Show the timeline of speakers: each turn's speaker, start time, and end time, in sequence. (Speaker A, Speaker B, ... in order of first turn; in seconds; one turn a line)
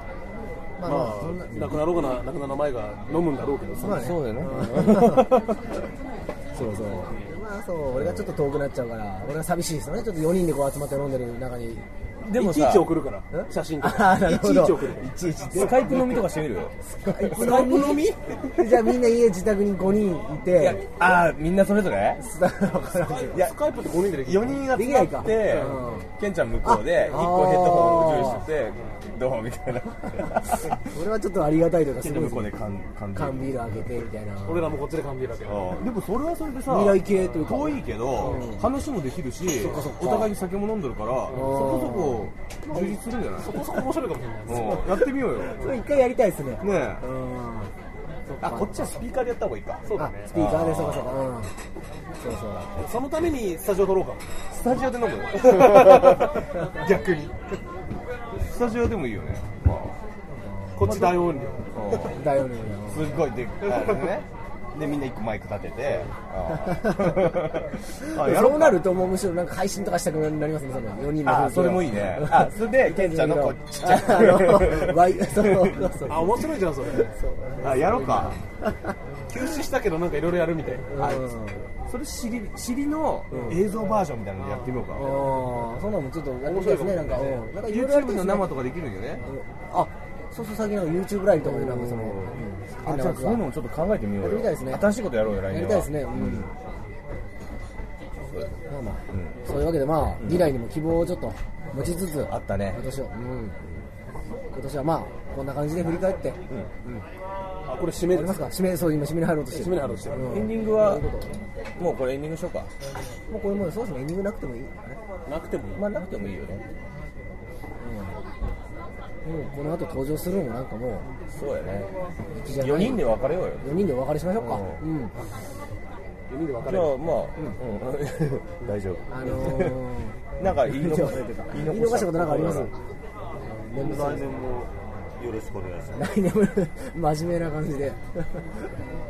Speaker A: 0.8-1.8
Speaker B: 0.8-4.1
Speaker A: 3.8-5.3
Speaker C: 3.8-5.5
Speaker A: 6.5-11.9
Speaker C: 8.0-8.3
Speaker C: 12.2-12.9
Speaker B: 12.3-15.1
Speaker A: 13.3-16.1
Speaker C: 15.5-17.7
Speaker A: 16.9-20.8
Speaker B: 17.3-18.8
Speaker C: 20.6-22.2
Speaker A: 22.2-23.4
Speaker B: 22.7-24.8
Speaker C: 24.2-30.8
Speaker A: 24.7-26.1
Speaker B: 25.4-25.8
Speaker A: 26.6-28.4
Speaker A: 30.8-32.5
Speaker C: 32.0-33.6
Speaker A: 33.1-34.8
Speaker B: 34.5-35.9
Speaker C: 35.6-43.7
Speaker A: 36.7-38.7
Speaker B: 39.5-39.9
Speaker A: 39.6-40.3
Speaker B: 41.3-41.6
Speaker A: 41.3-42.3
Speaker B: 43.4-45.0
Speaker C: 44.5-45.7
Speaker A: 45.3-47.7
Speaker C: 46.6-47.0
Speaker C: 48.4-51.2
Speaker A: 48.4-48.7
Speaker B: 49.9-50.3
Speaker A: 50.0-51.5
Speaker A: 52.2-52.8
Speaker B: 52.8-54.3
Speaker C: 54.5-56.3
Speaker B: 55.4-57.6
Speaker C: 58.3-60.0
Speaker A: 60.6-61.0
Speaker B: 60.8-61.7
Speaker C: 60.8-61.2
Speaker C: 61.7-62.3
Speaker A: 62.1-63.2
Speaker C: 62.9-68.9
Speaker A: 66.7-67.3
Speaker A: 68.0-76.3
Speaker C: 71.2-76.0
Speaker B: 76.0-78.4
Speaker A: 77.1-77.5
Speaker C: 77.6-78.4
Speaker B: 79.3-81.2
Speaker A: 80.9-81.7
Speaker C: 81.0-81.2
Speaker C: 81.8-85.2
Speaker A: 83.3-83.6
Speaker B: 84.4-84.8
Speaker A: 85.0-88.5
Speaker B: 86.4-87.5
Speaker C: 87.5-89.3
Speaker A: 89.3-93.4
Speaker C: 91.4-96.5
Speaker A: 94.2-94.9
Speaker A: 95.5-96.5
Speaker A: 98.7-103.6
Speaker C: 100.2-100.5
Speaker C: 102.3-102.8
Speaker A: 104.5-106.4
Speaker C: 106.5-107.0
Speaker B: 107.7-108.5
Speaker A: 108.1-111.4
Speaker B: 109.5-110.5
Speaker C: 110.2-111.0
Speaker C: 111.8-112.7
Speaker A: 113.3-115.0
Speaker B: 115.3-115.8
Speaker C: 115.8-116.6
Speaker A: 117.8-118.2
Speaker A: 119.2-121.1
Speaker C: 121.3-121.9
Speaker A: 122.4-125.1
Speaker C: 122.5-123.8
Speaker C: 124.4-124.8
Speaker B: 126.3-127.0
Speaker C: 126.7-129.9
Speaker A: 129.1-132.7
Speaker C: 130.4-132.7
Speaker A: 133.6-134.3
Speaker D: 133.8-136.0
Speaker A: 135.9-138.4